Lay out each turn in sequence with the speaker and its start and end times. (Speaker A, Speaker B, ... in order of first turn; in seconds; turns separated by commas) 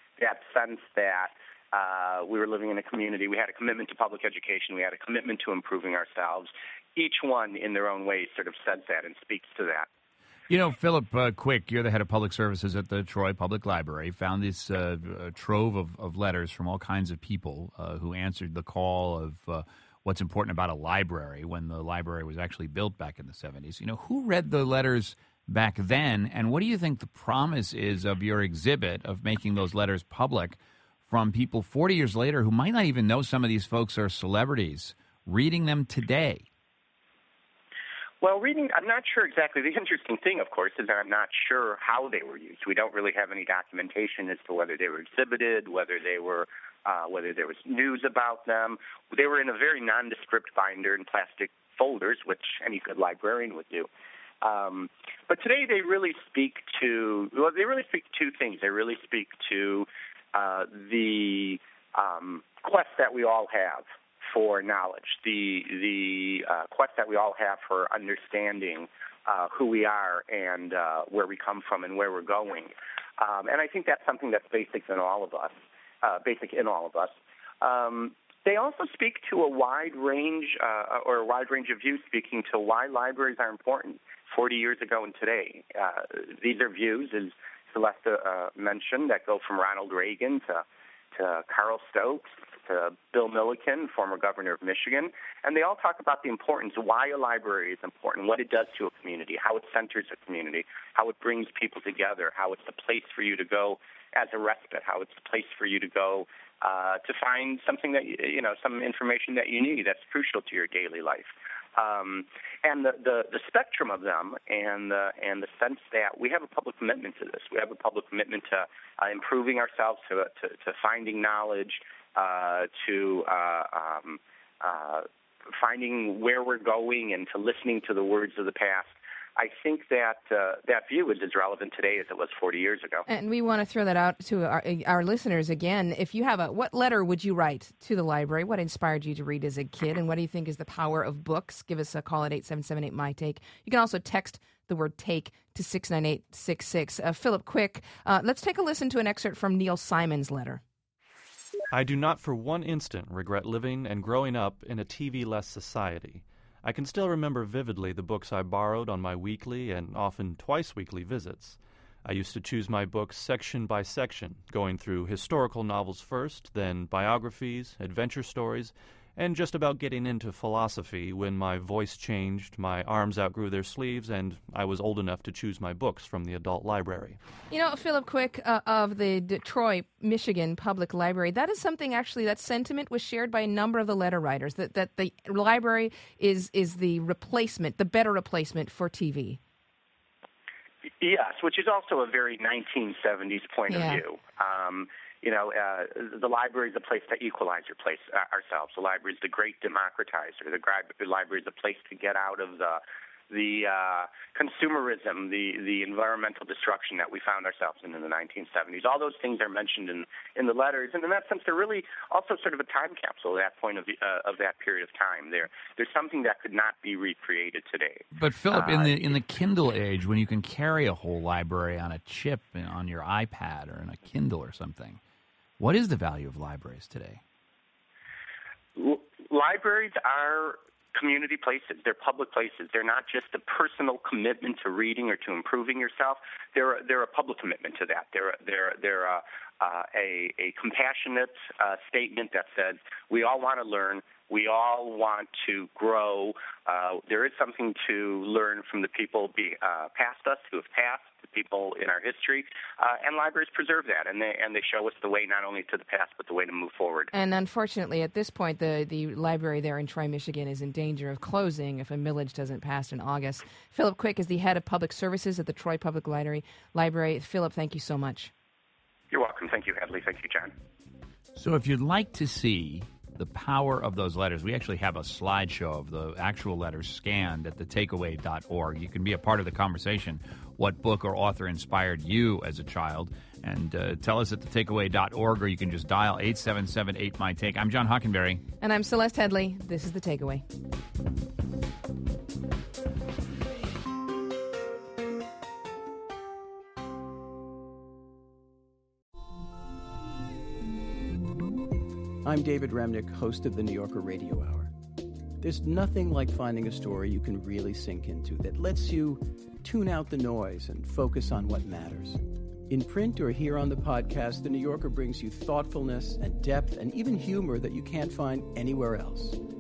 Speaker A: 0.2-9.9, Speaker B: 10.5-36.5, Speaker A: 38.2-53.9, Speaker A: 54.4-90.6, Speaker A: 91.2-133.1, Speaker C: 133.1-150.6, Speaker D: 151.7-177.2, Speaker C: 177.5-189.4, Speaker A: 191.0-219.1, Speaker C: 193.7-194.0, Speaker B: 218.1-225.0, Speaker B: 225.6-227.2, Speaker A: 228.8-257.1, Speaker C: 257.1-268.3, Speaker A: 269.1-270.5, Speaker B: 271.4-288.4, Speaker C: 288.6-290.4, Speaker E: 302.2-304.7, Speaker E: 305.4-319.4